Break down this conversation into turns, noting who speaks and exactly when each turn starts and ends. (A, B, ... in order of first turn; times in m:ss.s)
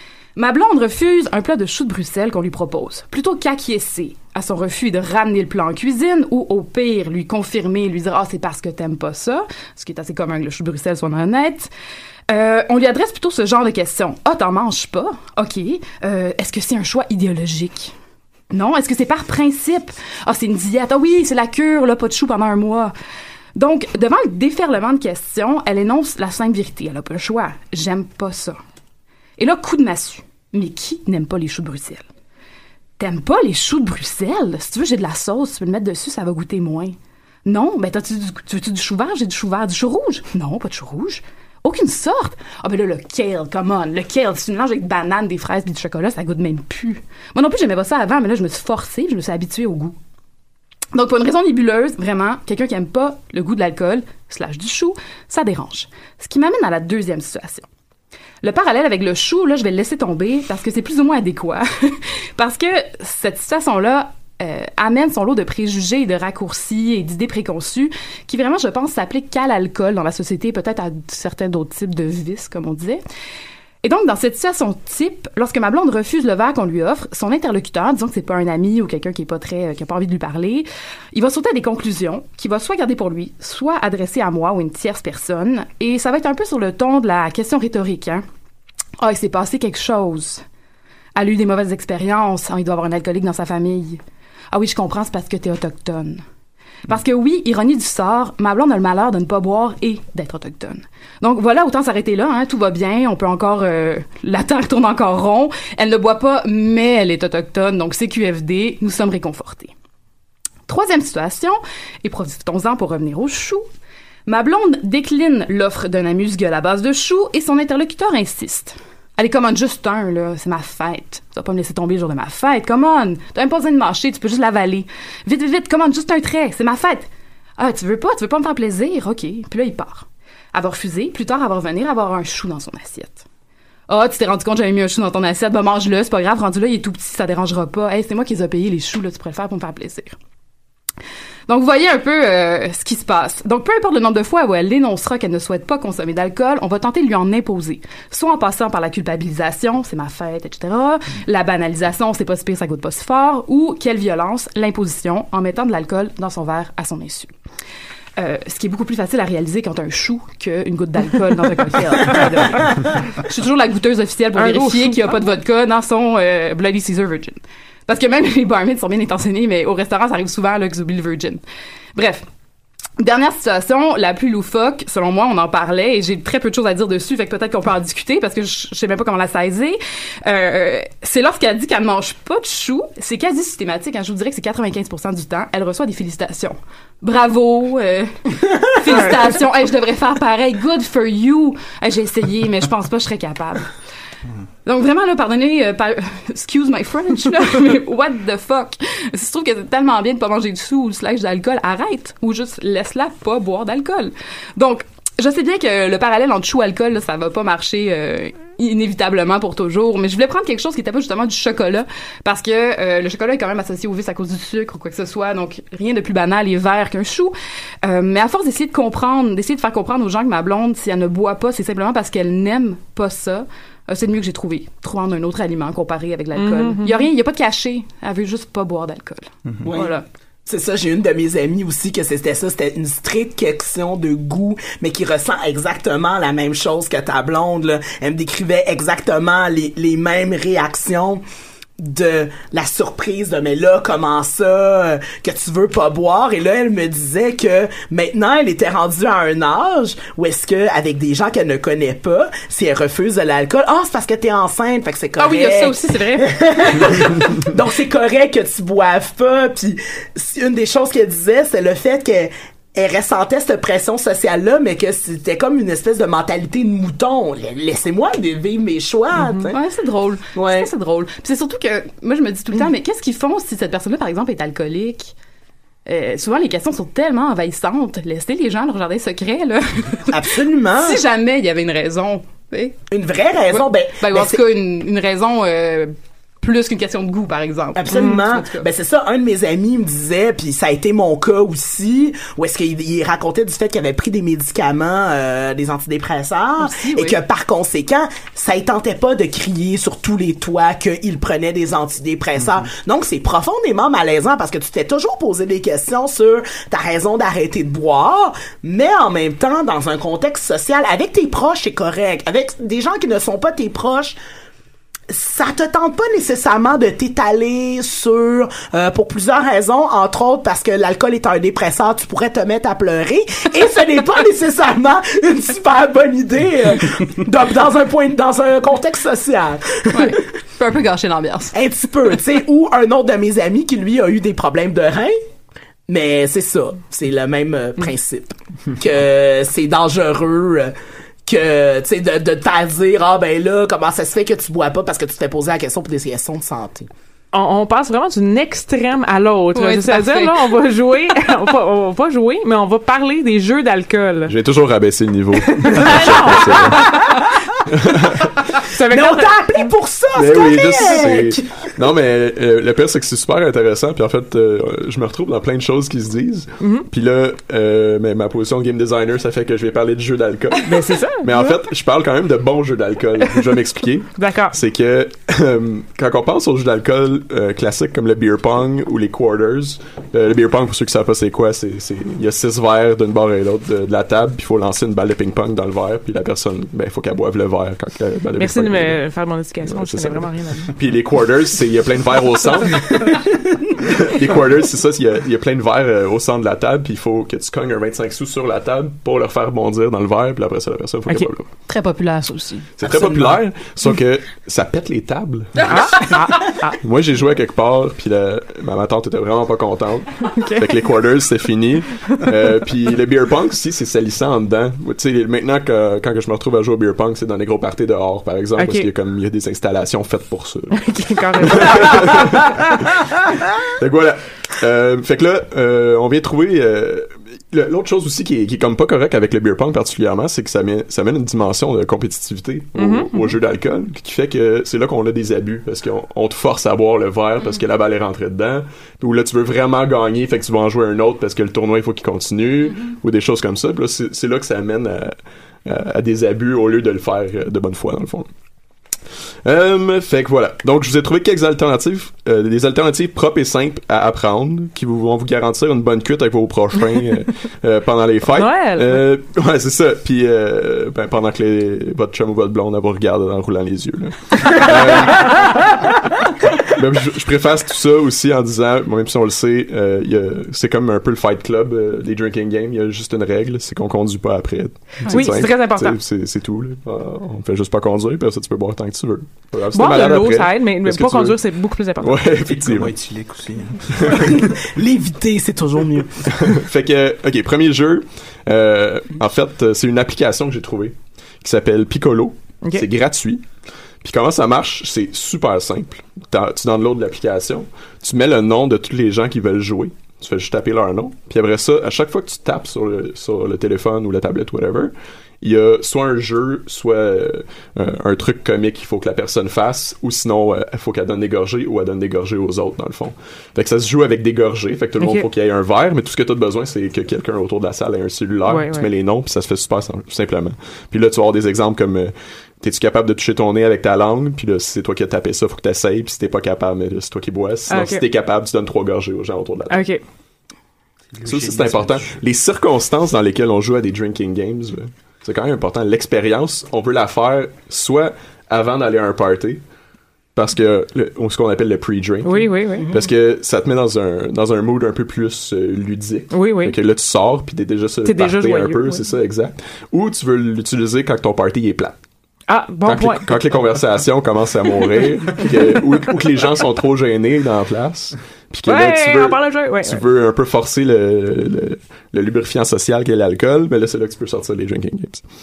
0:00.4-0:11.7 A
0:12.3-0:17.9 A
0:18.5-0:22.9 A
0:23.6-0:28.6 A
0:29.4-0:32.0 A
0:33.0-0:50.0 A
0:50.9-0:57.7 A
0:58.4-1:13.0 A
1:13.8-1:28.2 A
1:29.0-1:30.4 A
1:31.1-1:36.2 A
1:36.9-1:49.7 A
1:50.7-1:53.6 A
1:54.3-2:13.2 A
2:13.9-2:20.2 A
2:21.5-2:37.3 A
2:38.2-2:51.4 A
2:44.4-2:45.2 B
2:52.0-2:52.2 A
2:53.0-3:08.2 A
3:08.7-3:13.7 A
3:14.6-3:50.0 A
3:46.4-3:47.1 B
3:49.7-4:01.2 C
4:01.8-4:29.6 C
4:15.2-4:17.1 A
4:29.2-4:29.4 B
4:29.5-4:35.1 A
4:30.3-4:30.7 C
4:35.9-4:42.8 A
4:40.1-4:41.0 C
4:42.9-4:44.4 C
4:43.5-4:48.7 A
4:47.7-5:14.2 C
4:56.6-4:57.2 A
5:15.1-5:30.2 C
5:29.9-5:31.5 A
5:31.5-5:35.2 C
5:35.9-5:40.7 C
5:41.3-5:46.9 C
5:47.3-5:54.3 B
5:49.5-5:50.6 A
5:54.3-5:57.0 D
5:55.6-5:57.2 B
5:57.8-5:58.3 D
5:58.7-5:59.4 B
5:58.9-6:01.5 C
6:00.1-6:29.0 D
6:06.6-6:06.9 B
6:10.6-6:11.4 B
6:14.2-6:14.6 B
6:28.4-6:30.7 B
6:29.7-6:41.5 D
6:41.7-6:42.7 A
6:42.8-6:46.1 D
6:42.9-6:43.3 C
6:45.6-6:46.8 B
6:46.8-7:03.0 D
6:50.2-6:50.7 B
6:58.6-6:58.9 B
7:00.7-7:02.2 B
7:03.7-7:28.3 D
7:12.8-7:13.4 B
7:29.4-7:45.7 D
7:38.3-7:39.0 B
7:46.6-8:01.4 D
7:55.1-7:56.0 B
7:59.7-8:02.3 B
8:02.0-8:02.9 D
8:02.4-8:04.3 E
8:04.2-8:06.5 C
8:06.3-8:13.4 D
8:14.0-8:49.9 D
8:35.0-8:35.3 B
8:38.5-8:38.9 B
8:47.7-8:48.0 B
8:49.7-8:50.0 B
8:51.1-8:52.2 E
8:51.2-8:59.6 D
9:00.4-9:12.0 D
9:02.2-9:02.9 B
9:02.8-9:03.0 C
9:06.3-9:06.8 B
9:08.0-9:09.1 B
9:12.5-9:13.3 B
9:12.8-9:25.2 D
9:18.7-9:20.1 B